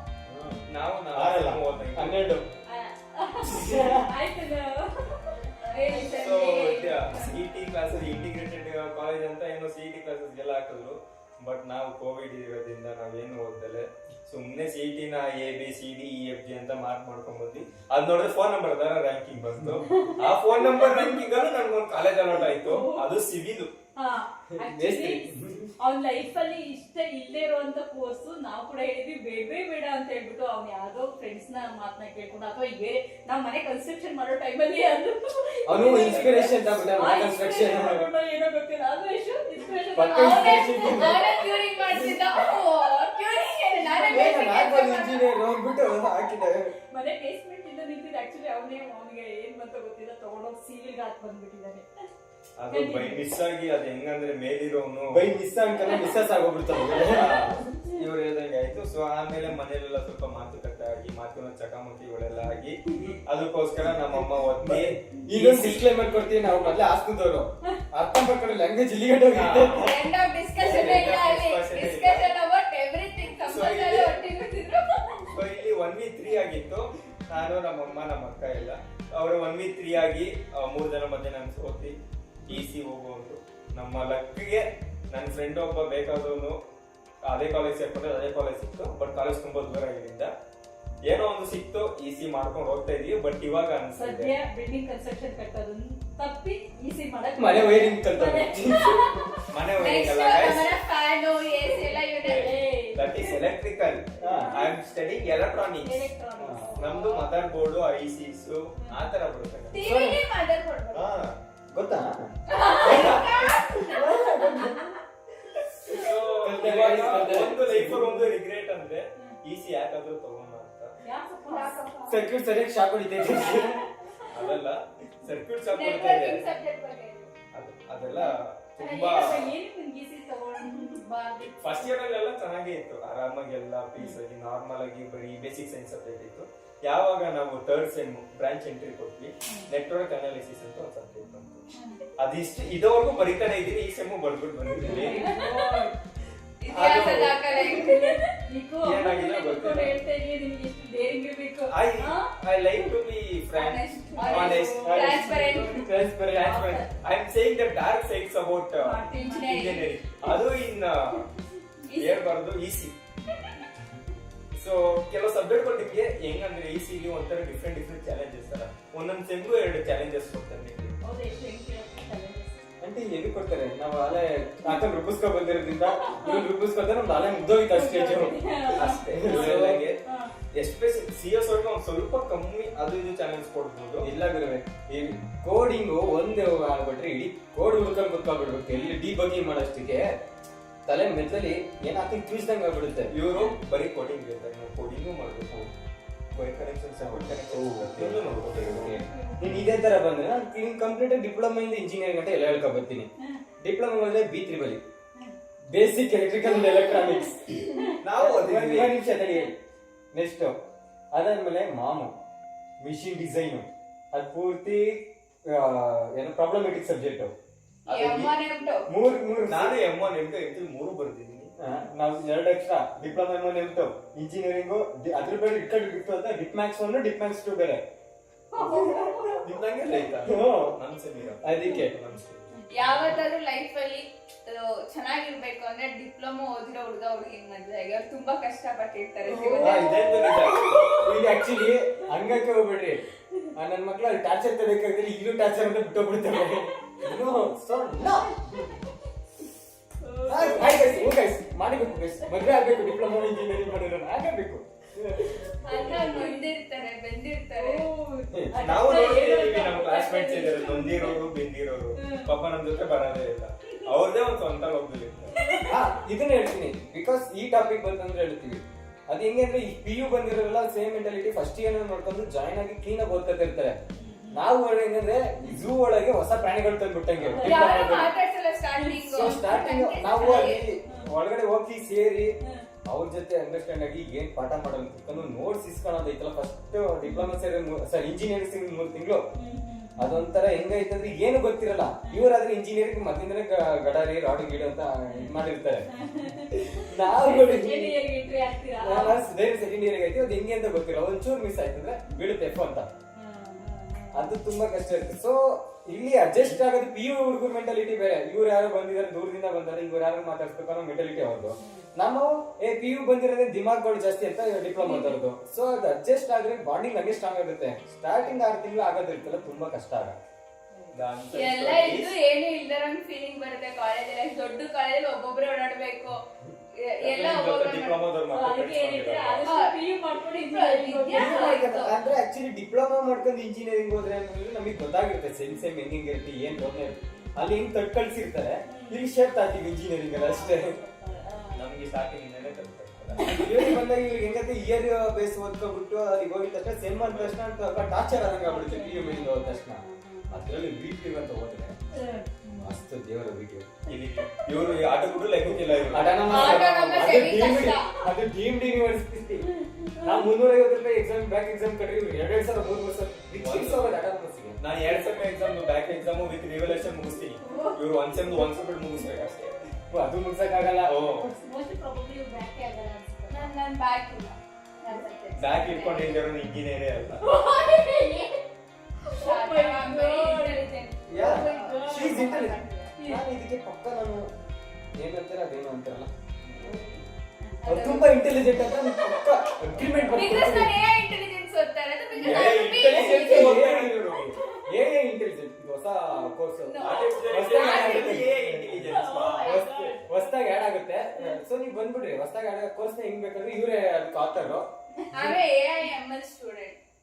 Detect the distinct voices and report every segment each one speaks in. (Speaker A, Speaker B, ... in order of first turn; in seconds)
Speaker A: 0.3-2.5, 3.5-4.1, 24.6-25.7, 35.7-38.1, 39.9-41.2, 44.1-46.7, 55.1-57.6, 63.8-69.9, 97.4-99.1, 104.2-104.6, 106.4-106.9, 109.8-110.2, 111.7-112.3, 112.8-114.9, 115.5-118.3, 122.1-123.8, 144.9-145.3, 154.8-156.6, 172.8-179.9, 184.0-190.1, 190.9-193.1, 197.0-203.1, 203.6-204.8, 205.7-209.5, 210.1-210.5, 211.1-212.1, 212.8-217.3, 218.9-219.8, 221.6-227.8, 228.6-229.2, 230.3-230.8, 231.4-232.0, 239.3-240.4, 241.0-243.0, 243.6-248.7, 250.3-255.5, 265.7-273.8, 274.3-278.1, 279.0-282.3, 282.9-289.2, 290.0-295.9, 296.6-298.0, 298.8-302.9, 304.1-320.2, 331.1-340.8, 343.2-351.8, 352.6-353.8, 355.5-359.5, 360.0-364.6, 369.9-371.4, 381.1-384.3, 385.0-386.1, 387.6-390.8, 392.2-405.4
Speaker B: 0.7-2.3, 6.2-23.7, 35.7-36.6, 52.6-55.2, 56.9-66.0, 69.3-69.9, 70.6-72.3, 73.5-74.2, 75.3-86.6, 87.2-90.3, 91.0-94.3, 99.5-100.7, 102.2-106.1, 106.8-109.8, 110.9-111.4, 115.9-120.9, 124.3-126.5, 127.5-129.5, 131.6-145.4, 146.7-147.4, 148.8-150.0, 151.7-155.3, 156.4-161.3, 161.9-162.9, 164.6-170.9, 178.6-180.0, 180.5-184.1, 193.1-195.7, 196.3-199.6, 208.0-209.0, 217.9-218.3, 219.5-221.5, 229.4-232.5, 239.6-240.9, 258.6-265.6, 320.9-322.1, 327.0-329.5, 341.6-343.6, 346.9-347.4, 353.9-356.6, 363.4-364.1, 364.6-369.6, 370.9-371.3, 375.4-377.2, 392.2-394.4, 396.8-399.6
Speaker C: 2.7-7.4, 19.9-21.4, 22.5-23.1, 24.0-42.6, 43.8-44.3, 46.9-51.9, 52.7-53.3, 55.8-57.9, 93.9-99.4, 102.2-103.4, 104.2-104.8, 105.8-107.3, 114.5-114.9, 121.0-121.8, 123.3-124.2, 128.1-131.9, 141.7-142.0, 144.8-145.9, 147.5-152.9, 154.1-155.8, 156.4-156.9, 158.8-159.8, 171.0-172.7, 176.0-176.5, 177.7-180.3, 188.7-189.0, 193.3-193.6, 198.9-199.4, 206.4-208.0, 209.3-209.5, 228.5-229.5, 239.3-242.4, 248.6-248.9, 250.0-251.2, 252.3-253.0, 255.3-256.5, 257.5-261.3, 262.0-262.3, 265.3-265.9, 273.9-274.5, 277.2-278.1, 278.8-279.5, 280.2-281.1, 287.0-287.4, 289.4-290.2, 292.1-292.3, 295.1-295.3, 296.0-299.2, 303.2-304.3, 311.6-311.9, 314.8-315.2, 320.7-321.0, 328.3-331.7, 336.5-337.3, 338.7-339.1, 340.1-341.6, 342.4-343.8, 348.4-350.4, 351.9-352.8, 353.9-355.2, 359.4-360.3, 367.4-368.1, 371.4-373.5, 377.2-378.3, 379.1-382.4, 386.5-387.6, 394.3-394.6, 398.9-400.3, 401.1-401.4
Speaker D: 5.6-6.8, 40.2-45.3, 69.7-75.2, 99.8-102.5, 109.7-111.2, 112.5-114.0, 121.5-122.2, 125.7-127.3, 146.6-148.1, 153.5-155.8, 159.1-159.8, 161.9-162.2, 217.9-218.8, 232.7-239.9, 255.6-257.8, 277.4-280.6, 321.3-326.2, 326.8-328.1, 329.4-329.8, 330.3-332.0, 356.3-357.9, 373.3-376.2, 379.2-382.9, 386.5-386.9, 387.7-388.1, 390.1-393.6, 396.6-398.1, 405.1-406.8